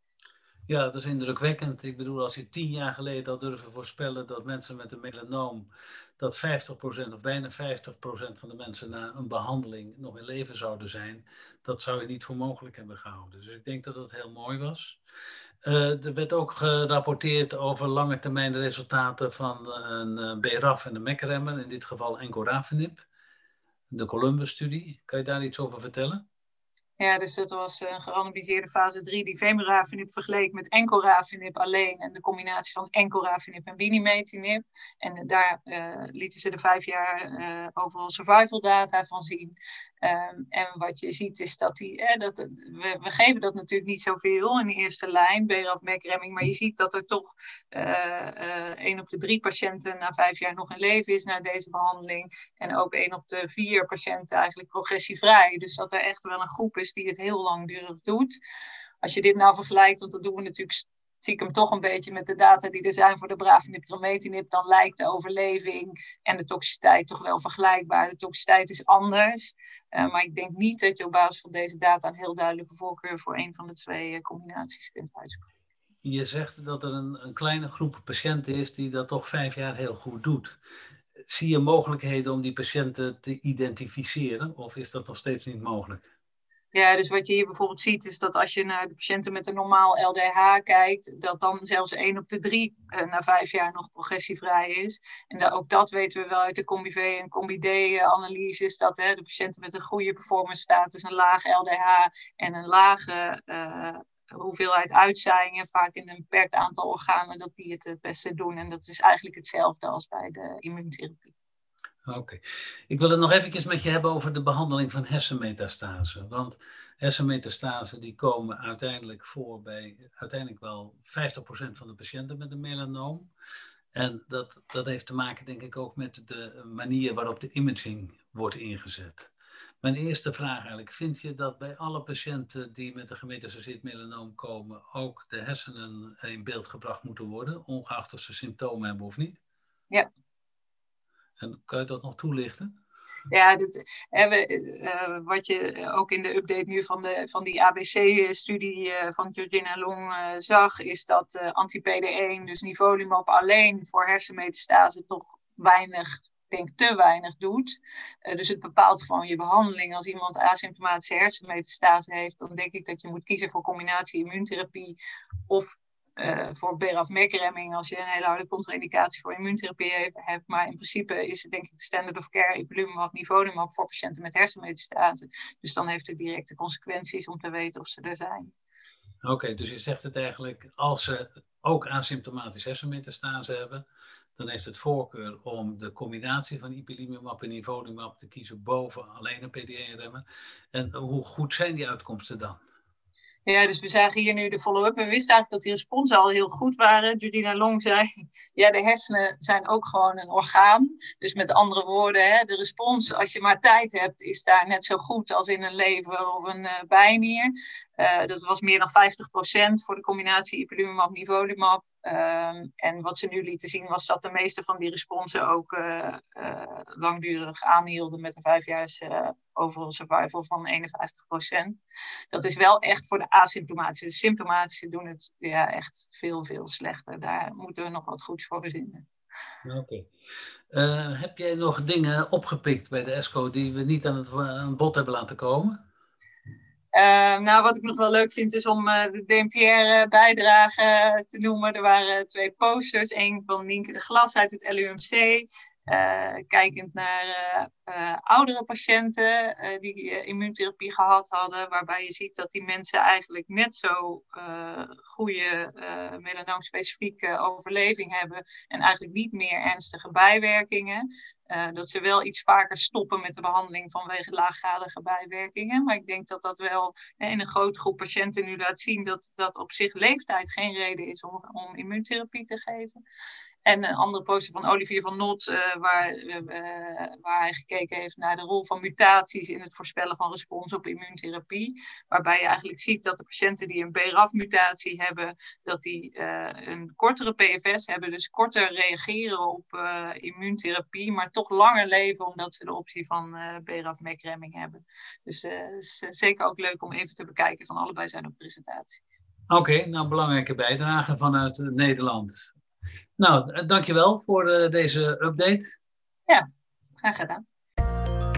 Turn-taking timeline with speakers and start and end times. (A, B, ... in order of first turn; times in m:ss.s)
0:00.7-0:15.0 A
0:15.6-0:23.0 A
0:23.9-0:26.2 A
0:27.0-0:58.3 B
0:59.0-1:15.4 B
1:16.0-1:20.6 A
1:21.3-1:26.0 A
1:26.7-1:51.3 B
1:52.1-2:03.3 A
2:03.9-2:09.3 A
2:09.8-2:19.4 A
2:21.4-2:22.7 A
2:23.3-2:45.0 B
2:45.5-2:58.5 B
2:59.2-3:03.8 A
3:04.4-3:12.6 A
3:13.4-3:41.8 B
3:42.3-3:49.0 B
3:49.6-3:50.1 A
3:50.7-3:55.7 A
3:56.9-4:33.0 B
4:33.6-4:59.0 B
4:59.5-5:02.5 A
5:03.2-5:05.8 A
5:07.0-5:07.4 B